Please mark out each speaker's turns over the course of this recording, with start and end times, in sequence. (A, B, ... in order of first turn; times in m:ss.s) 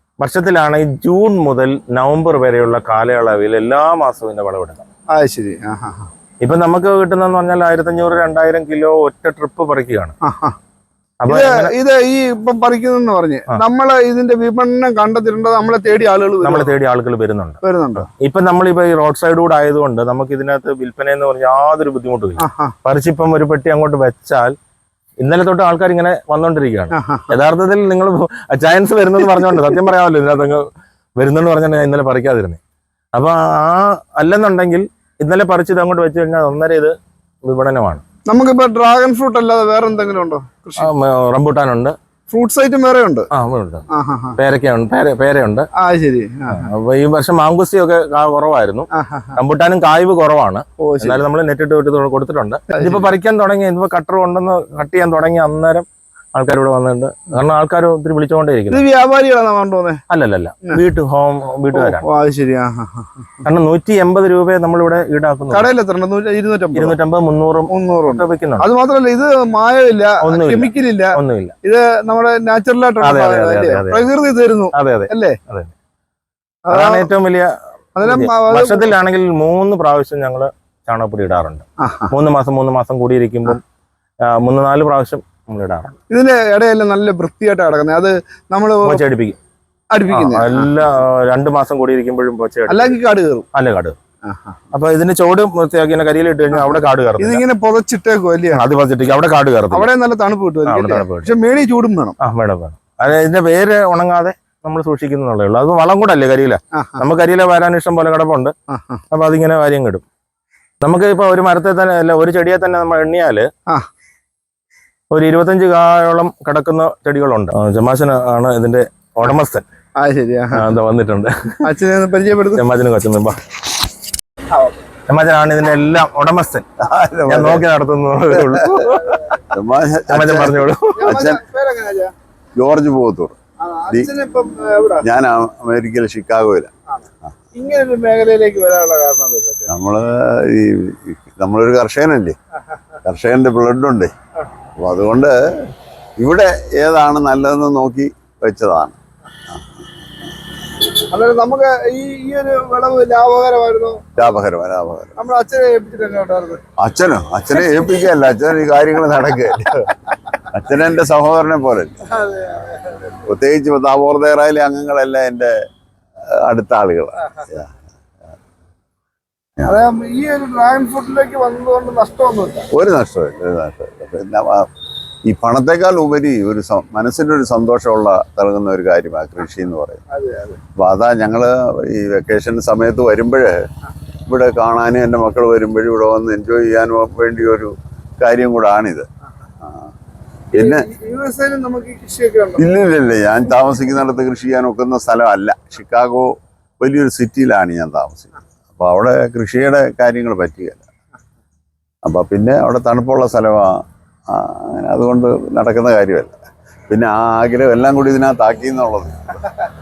0:00.2-0:04.8 A
0:05.1-0:06.1 B
0:06.4-0:10.2 A
0:10.2-0:10.6 B
0:11.2-0:11.7 A
0:11.3-0:16.7 B
0:16.4-0:24.5 A
0:17.6-0:18.1 B
0:22.4-0:22.8 B
0:25.2-0:30.7 A
0:26.9-0:27.3 B
0:31.2-0:32.6 A
0:33.1-0:36.9 A
0:37.4-0:38.0 A
0:38.3-0:40.9 B
0:40.8-0:42.0 A
0:42.3-0:43.3 B
0:43.3-0:45.7 A
0:43.9-0:44.4 B
0:45.8-0:46.7 B
0:46.5-0:58.8 A
0:48.9-0:49.3 B
0:50.8-0:51.2 B
0:52.7-0:53.1 B
0:58.7-1:00.0 B
1:00.1-1:02.0 A
1:01.7-1:03.1 B
1:03.4-1:05.7 A
1:05.5-1:07.0 B
1:06.8-1:08.7 A
1:07.7-1:15.4 B
1:10.2-1:11.5 A
1:13.0-1:14.0 A
1:14.7-1:15.7 A
1:16.7-1:17.1 B
1:16.7-1:17.5 A
1:18.0-1:18.9 B
1:18.0-1:23.6 A
1:21.8-1:22.1 B
1:24.3-1:26.0 A
1:26.1-1:29.0 B
1:28.8-1:29.4 A
1:29.9-1:30.7 B
1:30.1-1:33.0 A
1:32.7-1:33.5 B
1:33.5-1:34.0 A
1:34.2-1:34.6 B
1:34.7-1:37.4 A
1:36.5-1:38.7 B
1:38.5-1:39.9 A
1:39.7-1:42.2 B
1:40.7-1:41.3 A
1:42.2-1:48.5 A
1:46.7-1:47.0 B
1:48.7-1:49.0 B
1:49.1-1:50.0 A
1:50.8-1:53.5 A
1:55.1-1:59.6 A
2:00.0-2:00.7 B
2:00.5-2:01.7 A
2:01.6-2:02.6 B
2:02.6-2:03.4 A
2:05.1-2:06.6 A
2:06.8-2:07.6 B
2:07.3-2:09.4 A
2:09.5-2:11.4 C
2:10.1-2:11.1 A
2:11.0-2:12.1 B
2:12.6-2:13.4 C
2:13.6-2:15.1 B
2:15.0-2:16.7 C
2:17.6-2:19.7 B
2:19.7-2:22.4 C
2:23.0-2:24.1 C
2:24.8-2:29.0 C
2:31.1-2:34.1 B
2:34.2-2:35.2 C
2:35.2-2:36.6 B
2:36.8-2:39.8 C
2:40.5-2:42.1 C
2:42.2-2:43.0 B
2:43.1-2:45.6 C
2:46.3-2:47.7 C
2:49.6-2:52.7 B
2:52.7-2:54.7 C
2:55.2-3:00.0 C
3:00.1-3:00.6 B
3:00.8-3:03.6 C
3:04.3-3:09.1 C
3:09.6-3:09.9 C
3:10.5-3:10.9 C
3:10.6-3:12.6 B
3:12.6-3:20.8 C
3:22.0-3:26.4 C
3:26.9-3:29.4 C